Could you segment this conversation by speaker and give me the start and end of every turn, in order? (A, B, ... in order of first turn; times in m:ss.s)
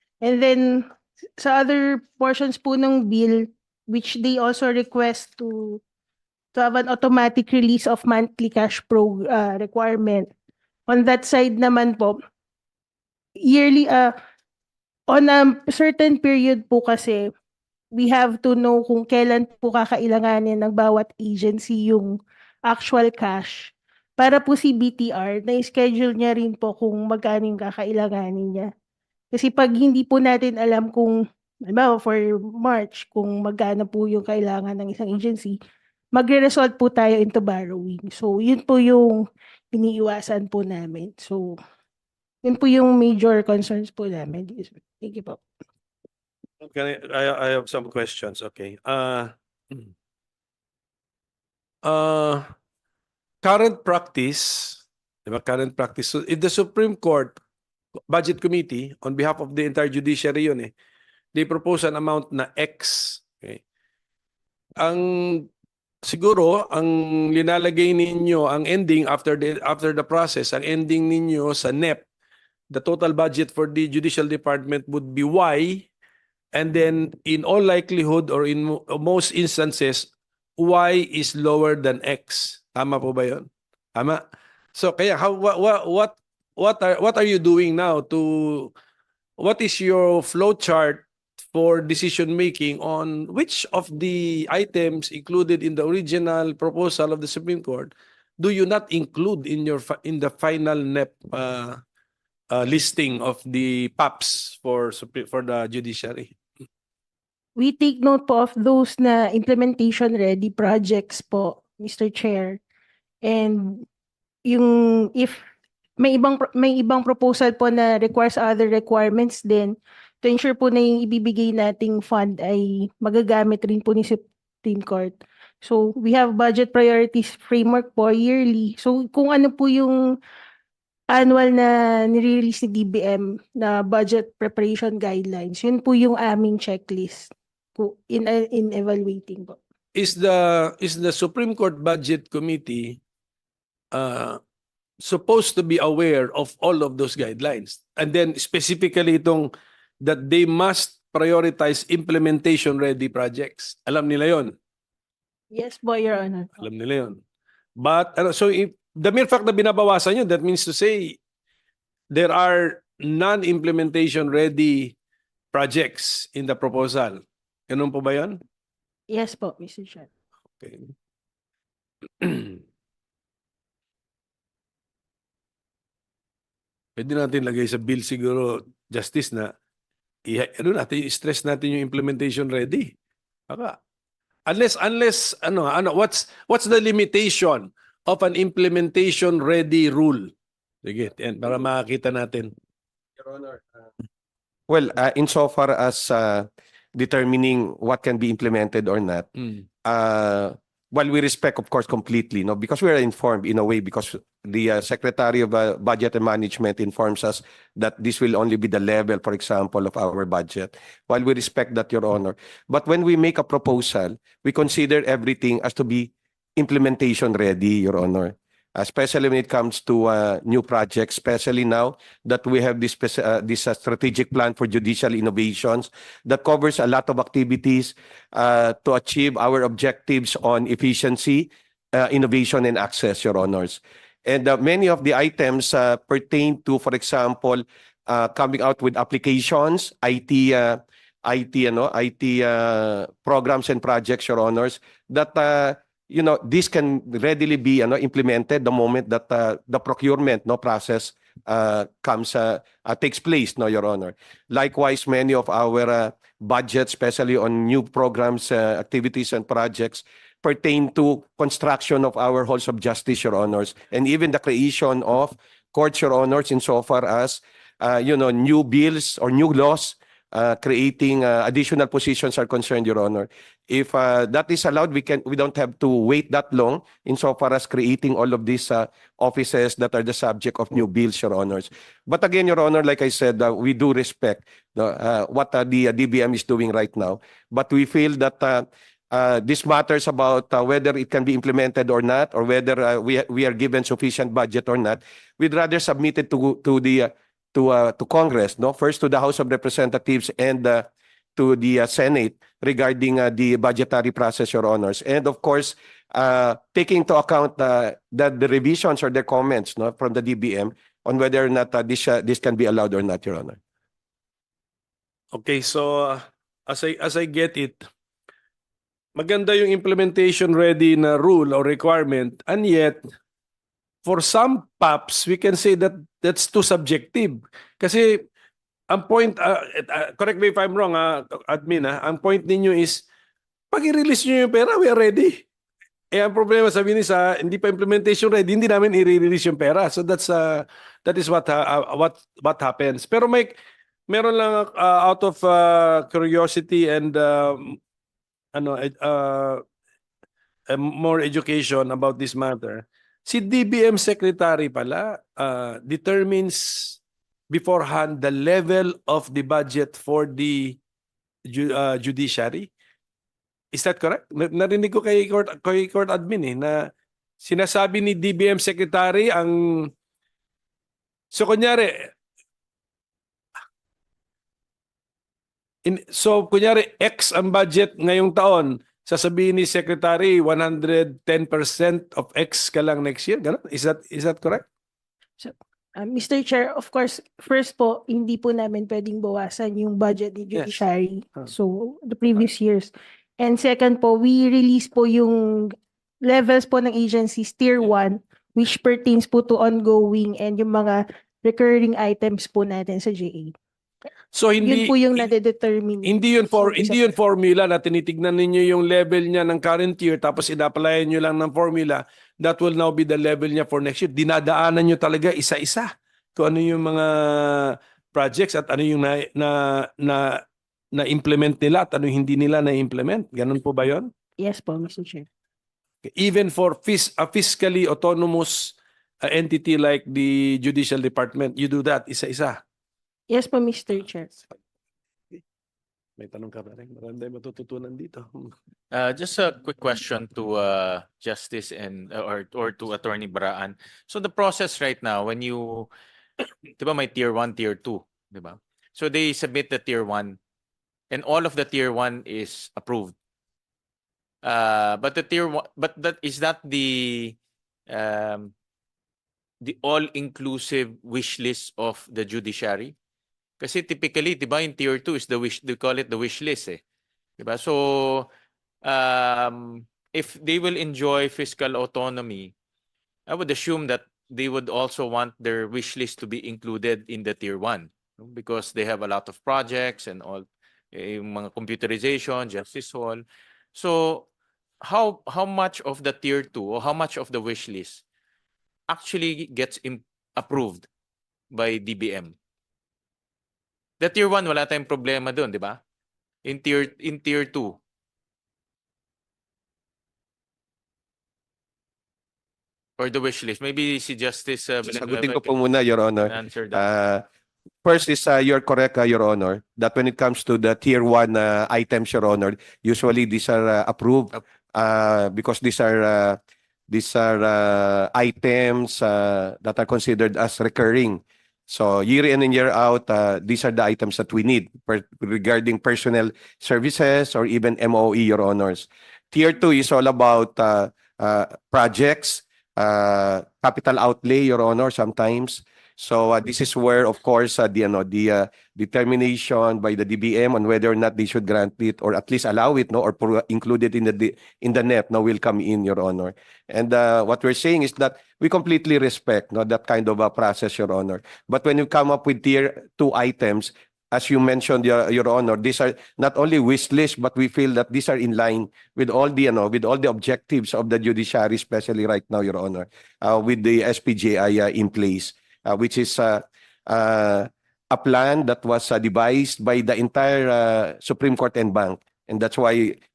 0:00.2-0:00.9 A
0:01.4-0:05.8 A
0:06.5-0:10.3 A
0:10.9-0:12.2 A
0:13.4-0:14.1 A
0:15.1-0:17.3 A
0:17.9-0:28.7 A
0:29.3-0:35.6 A
0:36.1-0:41.6 A
0:42.4-0:45.4 A
0:46.6-0:49.9 B
0:51.8-0:52.4 B
0:53.4-0:57.4 B
0:58.1-1:00.7 B
1:01.3-1:03.6 B
1:04.8-1:05.5 B
1:06.0-1:12.0 B
1:12.7-1:15.9 B
1:16.5-1:24.2 B
1:24.7-1:28.7 B
1:29.4-1:41.8 B
1:42.5-1:46.3 B
1:47.6-1:52.6 A
1:53.2-1:53.8 A
1:54.4-1:55.4 A
1:56.0-2:10.2 A
2:11.1-2:19.6 A
2:19.9-2:23.0 B
2:23.9-2:24.4 B
2:25.0-2:34.5 B
2:35.5-2:36.6 A
2:36.6-2:37.2 B
2:37.8-2:41.2 B
2:42.1-2:44.9 B
2:45.5-2:48.4 B
2:49.1-2:50.1 A
2:50.6-2:50.9 B
2:52.2-2:52.6 B
2:57.0-2:59.5 B
3:00.2-3:02.9 B
3:03.5-3:03.8 B
3:04.4-3:10.3 B
3:10.8-3:12.5 B
3:13.2-3:13.6 C
3:14.7-3:19.3 C
3:19.8-5:13.6 C
5:15.3-5:17.8 B
5:19.1-5:23.0 B
5:24.0-5:28.3 B
5:28.9-5:33.0 B
5:33.7-5:35.4 B
5:36.1-5:43.6 B
5:44.1-5:47.8 B
5:48.5-5:49.6 B
5:50.7-5:57.0 B
5:57.5-6:00.8 B
6:01.5-6:02.7 B
6:03.7-6:06.9 B
6:07.4-6:09.9 B
6:11.3-6:12.1 B
6:15.8-6:24.7 B
6:25.4-6:43.5 A
6:30.5-6:30.8 B
6:44.3-6:45.3 B
6:44.6-6:47.1 A
6:46.0-7:00.4 B
7:00.9-7:04.1 B
7:04.4-7:05.3 A
7:06.0-7:12.6 B
7:13.3-7:14.3 A
7:16.2-7:18.5 B
7:18.9-7:25.9 D
7:26.8-7:30.4 D
7:31.1-7:33.1 D
7:34.4-7:37.4 D
7:37.9-7:38.5 D
7:39.6-7:42.9 D
7:43.6-7:46.8 D
7:47.4-7:48.3 D
7:48.8-7:52.5 D
7:53.3-8:04.3 D
8:04.8-8:08.0 D
8:08.9-8:10.9 D
8:11.5-8:12.3 D
8:14.0-8:15.8 D
8:16.4-8:17.8 D
8:23.0-8:25.5 D
8:24.9-8:27.2 C
8:26.2-8:26.8 D
8:27.8-8:36.4 C
8:36.9-9:33.0 C